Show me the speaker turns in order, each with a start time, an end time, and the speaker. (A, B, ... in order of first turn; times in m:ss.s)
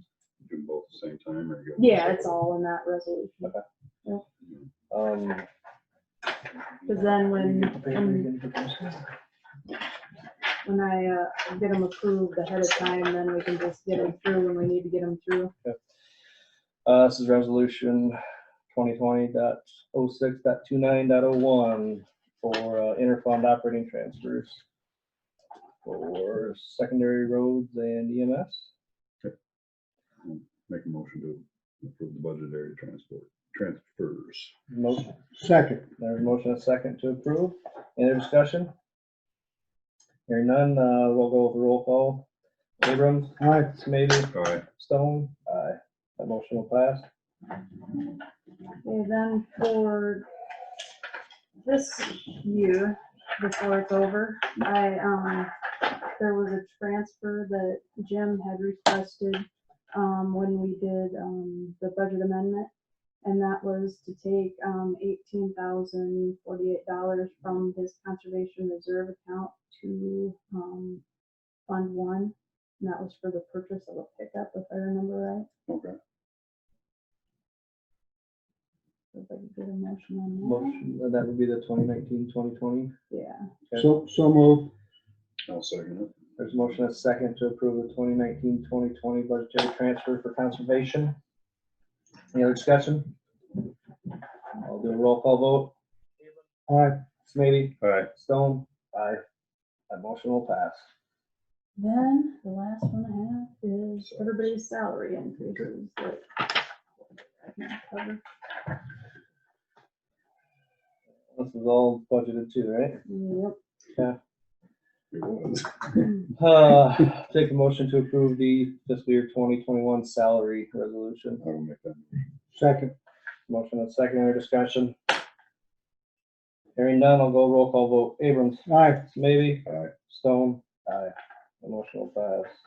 0:00.4-0:02.4 A
0:01.8-0:03.5 B
0:04.9-0:05.4 C
0:06.9-0:08.3 B
0:06.9-0:09.0 C
0:10.6-0:15.5 B
0:16.8-0:18.2 C
0:18.7-0:24.6 C
0:25.8-0:28.7 C
0:30.2-0:34.5 A
0:34.7-0:35.2 C
0:35.3-0:35.9 D
0:36.0-0:38.7 C
0:40.3-0:42.2 C
0:42.8-0:47.0 C
0:43.4-0:43.7 D
0:44.3-0:44.6 A
0:48.8-0:50.2 B
0:51.6-0:55.5 B
0:56.2-1:02.7 B
1:03.2-1:11.0 B
1:11.7-1:15.5 B
1:15.7-1:16.0 A
1:19.1-1:20.8 B
1:20.4-1:22.9 C
1:23.1-1:23.5 B
1:23.8-1:24.7 D
1:25.5-1:26.1 A
1:26.4-1:31.2 C
1:32.3-1:33.1 C
1:34.6-1:35.7 C
1:36.7-1:37.0 D
1:37.2-1:39.2 C
1:37.8-1:38.1 A
1:39.9-1:40.8 C
1:41.8-1:46.4 B
1:47.4-1:48.2 B
1:51.3-1:53.0 C
1:53.1-1:53.6 B
1:55.1-1:56.1 A
1:56.4-2:01.4 C
2:01.4-2:02.3 A
2:02.5-2:02.9 D
2:03.5-2:05.0 C
2:06.8-2:12.5 C
2:08.7-2:09.1 D
2:09.7-2:09.9 A